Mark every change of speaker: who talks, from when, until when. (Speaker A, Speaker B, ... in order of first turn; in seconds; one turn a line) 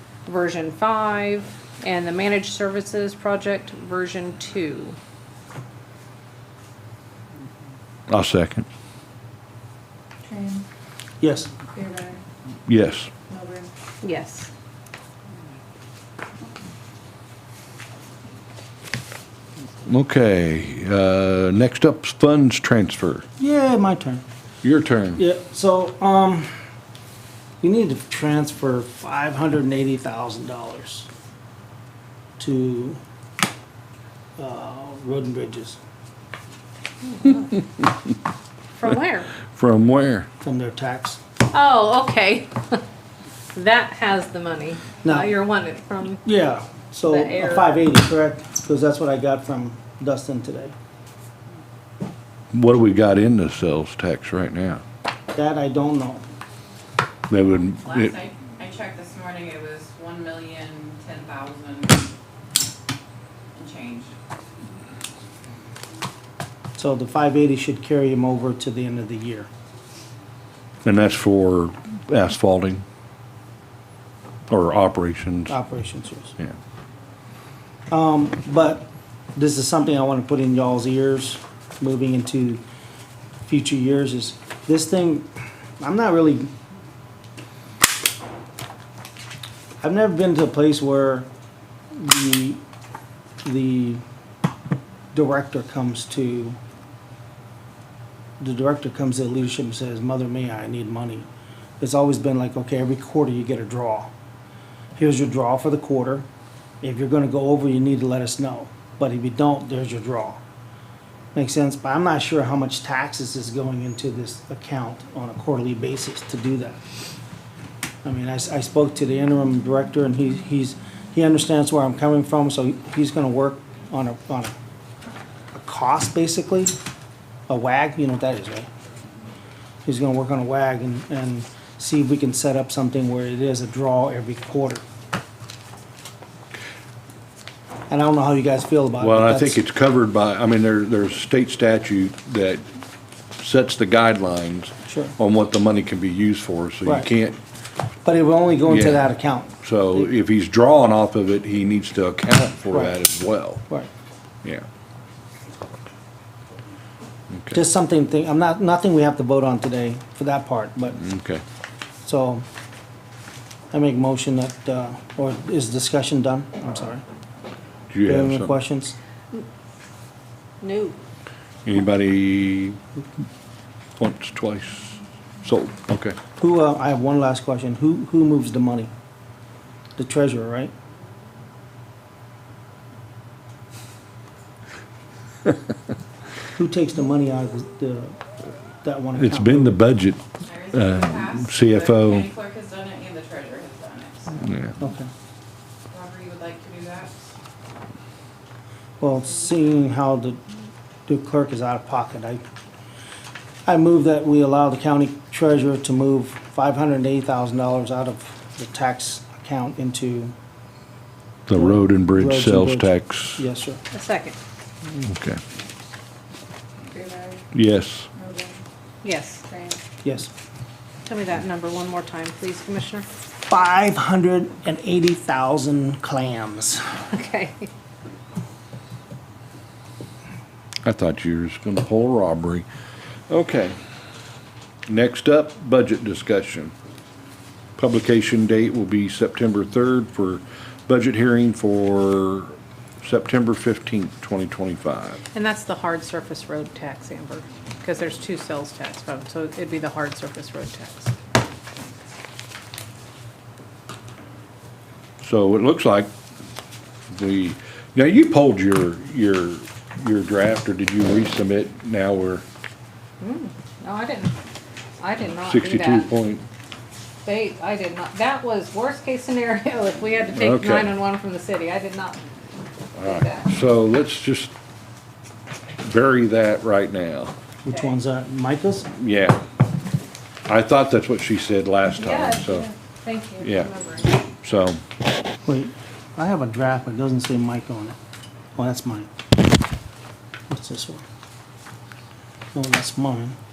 Speaker A: 0.3-5.0
Speaker B: 8.1-8.7
Speaker C: 10.2-10.6
Speaker D: 11.2-11.5
Speaker C: 11.7-12.2
Speaker B: 12.7-13.1
Speaker C: 13.3-13.7
Speaker A: 14.0-14.5
Speaker B: 19.9-23.2
Speaker D: 23.4-24.2
Speaker B: 24.6-25.2
Speaker D: 25.2-26.5
Speaker D: 27.6-31.1
Speaker D: 32.4-33.0
Speaker D: 34.4-35.8
Speaker A: 37.1-37.6
Speaker A: 38.7-39.4
Speaker B: 39.5-40.3
Speaker D: 40.4-41.2
Speaker A: 41.5-42.8
Speaker A: 43.5-46.2
Speaker D: 45.0-45.3
Speaker D: 46.2-50.7
Speaker A: 47.0-47.8
Speaker B: 52.5-54.8
Speaker D: 55.3-56.2
Speaker B: 57.3-58.1
Speaker E: 57.7-62.1
Speaker E: 63.5-64.1
Speaker D: 66.8-69.5
Speaker B: 70.8-72.8
Speaker B: 74.5-75.6
Speaker D: 75.5-76.4
Speaker D: 77.9-82.6
Speaker D: 83.5-86.5
Speaker D: 89.8-91.3
Speaker D: 91.9-92.6
Speaker D: 93.4-94.0
Speaker D: 95.1-96.6
Speaker D: 98.4-101.3
Speaker D: 101.8-104.1
Speaker D: 105.0-106.3
Speaker D: 106.8-110.4
Speaker D: 111.3-116.8
Speaker D: 118.0-124.5
Speaker D: 125.5-126.8
Speaker D: 127.5-128.7
Speaker D: 129.8-134.8
Speaker D: 137.9-139.6
Speaker B: 139.0-142.6
Speaker B: 143.4-147.4
Speaker D: 144.9-145.2
Speaker D: 148.1-150.1
Speaker B: 148.7-149.1
Speaker B: 149.6-153.7
Speaker D: 152.7-153.0
Speaker B: 157.3-157.6
Speaker D: 157.5-161.0
Speaker B: 161.0-161.4
Speaker D: 162.0-162.5
Speaker D: 163.7-167.0
Speaker B: 167.9-168.5
Speaker D: 168.1-168.9
Speaker A: 170.6-171.0
Speaker B: 171.7-172.8
Speaker B: 174.0-176.2
Speaker D: 176.4-178.9
Speaker D: 180.0-180.7
Speaker D: 186.6-188.2
Speaker D: 188.8-189.8
Speaker B: 189.2-192.3
Speaker E: 190.4-194.5
Speaker B: 194.4-194.8
Speaker D: 194.8-195.1
Speaker E: 195.9-197.2
Speaker D: 199.0-200.4
Speaker D: 201.1-202.4
Speaker D: 203.7-210.3
Speaker B: 211.5-213.4
Speaker D: 211.5-213.8
Speaker A: 213.9-214.4
Speaker B: 214.9-215.4
Speaker C: 216.9-217.4
Speaker B: 217.5-218.1
Speaker C: 218.2-218.6
Speaker A: 219.0-219.5
Speaker C: 219.5-219.8
Speaker D: 220.0-220.3
Speaker A: 221.1-223.1
Speaker D: 223.5-226.8
Speaker A: 227.1-227.7
Speaker B: 230.8-232.7
Speaker B: 233.3-233.8
Speaker B: 234.9-236.7
Speaker B: 237.8-245.2
Speaker A: 245.3-251.2
Speaker B: 255.2-256.1
Speaker B: 257.1-262.4
Speaker A: 263.2-264.4
Speaker A: 265.0-266.1
Speaker B: 265.4-266.4
Speaker A: 267.2-272.2
Speaker B: 270.4-270.9
Speaker B: 273.0-274.5
Speaker A: 273.0-273.5
Speaker B: 275.8-277.3
Speaker D: 277.6-278.9
Speaker B: 279.0-279.4
Speaker B: 280.5-282.7
Speaker A: 282.0-284.1
Speaker B: 283.4-283.7
Speaker B: 284.4-284.8
Speaker D: 285.4-288.0
Speaker D: 288.6-289.1
Speaker D: 290.5-291.0
Speaker D: 292.5-293.4